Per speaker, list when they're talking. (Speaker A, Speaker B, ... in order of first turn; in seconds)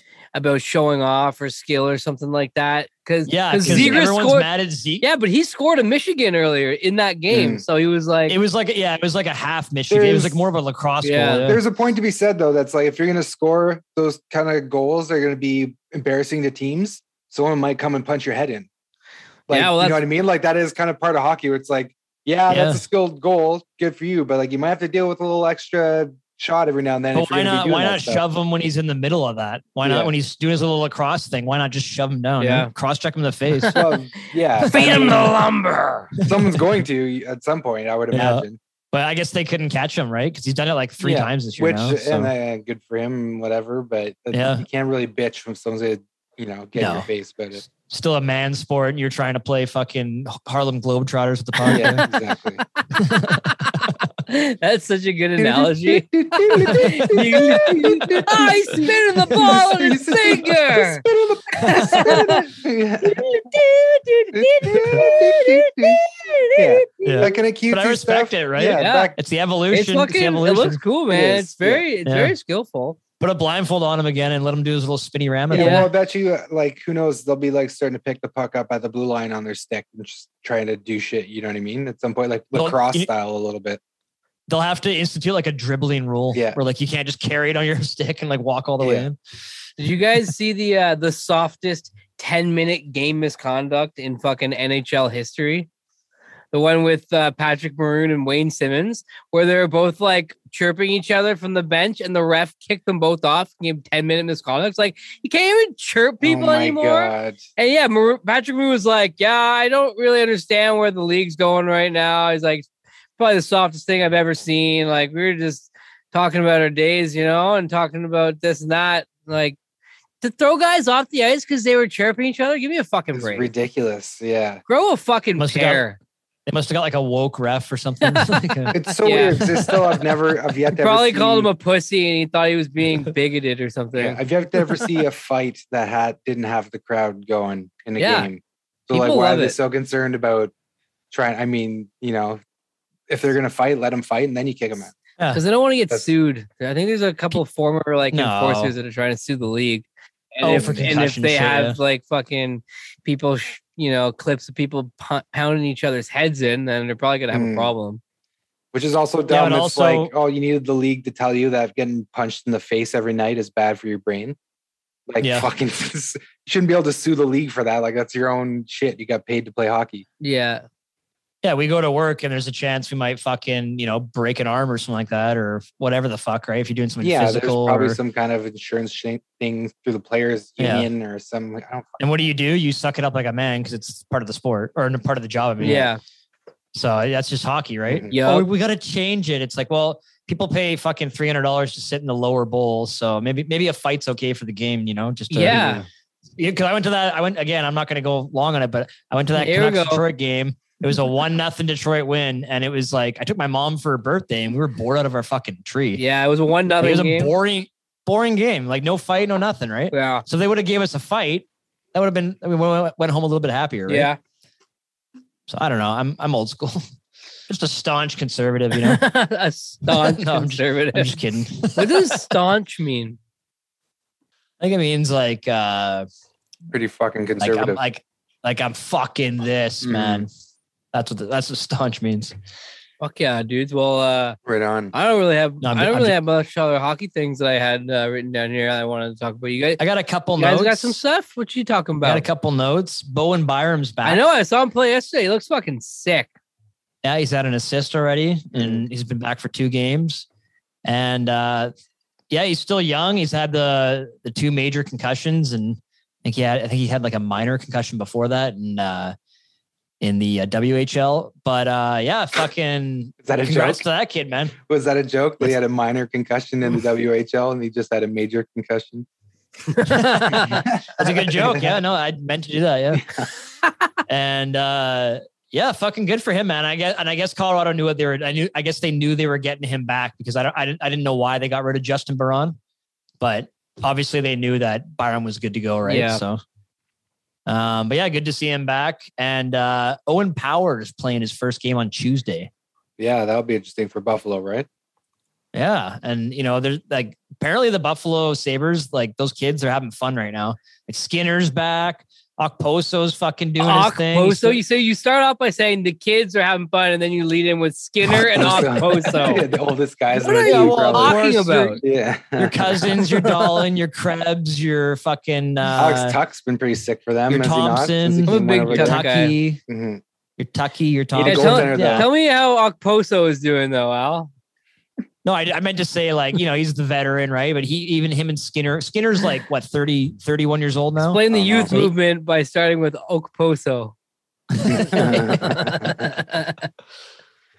Speaker A: 0.3-4.5, 5.0-8.4, 11.0-11.5, 19.5-20.0, 32.4-32.7, 34.7-36.1, 51.6-52.1, 54.3-61.0, 61.6-62.5, 63.0-67.3, 68.8-69.1, 69.7-73.0, 75.5-75.9, 89.8-95.7, 96.5-119.6, 120.2-123.5, 124.7-126.0, 128.0-129.8, 130.8-134.2, 138.0-138.3, 138.9-139.6, 145.3-158.0, 170.2-170.7, 185.6-186.0, 188.1-188.5, 195.3-195.8, 199.4-200.0, 206.0-207.3, 209.9-210.2, 213.9-214.2, 218.8-221.2, 221.8-223.2, 233.0-234.4, 234.9-239.8, 240.4-242.2, 244.0-246.3, 269.7-270.6, 285.9-286.2, 303.6-309.4, 310.1-311.8, 313.1-313.5, 318.3-319.4, 321.2-324.3, 331.0-333.9, 334.7-336.7
Speaker B: 3.3-5.0, 8.3-11.6, 22.5-22.8, 27.1-33.8, 34.6-35.3, 36.3-36.6, 38.1-42.3, 44.3-44.6, 46.8-47.1, 47.7-52.1, 52.9-53.9, 61.6-62.0, 67.0-70.8, 72.1-72.3, 73.2-75.9, 82.5-83.1, 84.5-89.2, 125.4-125.8, 126.5-128.8, 148.1-148.7, 150.4-151.8, 159.3-160.1, 165.2-165.5, 171.4-178.0, 180.6-180.9, 182.0-185.9, 186.7-195.8, 196.4-206.0, 206.8-214.1, 215.5-216.8, 217.5-219.1, 219.9-222.2, 224.6-226.1, 227.4-230.3, 230.9-232.3, 235.6-236.2, 239.8-241.0, 242.0-244.2, 247.0-250.3, 250.8-251.7, 252.3-259.1, 260.0-264.6, 269.9-273.2, 274.1-282.6, 283.2-286.4, 287.5-292.5, 295.5-304.6, 310.4-311.8, 312.4-316.2, 317.3-319.6, 320.4-322.1, 325.2-331.9, 334.6-335.6
Speaker C: 3.6-4.0, 7.3-7.6, 9.9-10.5, 11.5-18.7, 19.5-28.2, 29.8-30.1, 33.7-35.3, 36.2-38.6, 41.0-47.6, 51.7-52.6, 55.4-63.2, 64.3-66.0, 66.6-69.2, 71.1-71.9, 75.5-83.8, 86.3-86.6, 88.8-89.1, 106.2-107.4, 123.1-124.6, 128.7-131.5, 133.9-140.5, 141.1-142.4, 143.1-144.9, 150.5-150.9, 157.3-157.7, 158.7-164.4, 165.1-170.1, 177.0-182.0, 187.9-188.1, 195.5-195.8, 226.7-227.8, 229.8-230.3, 234.5-234.9, 248.5-248.8, 263.2-263.9, 264.6-269.1, 270.5-271.8, 272.9-273.3, 293.0-294.7, 308.1-311.2, 311.8-313.0, 315.8-319.0, 319.7-320.0, 321.1-322.1, 331.3-331.8, 334.7-336.0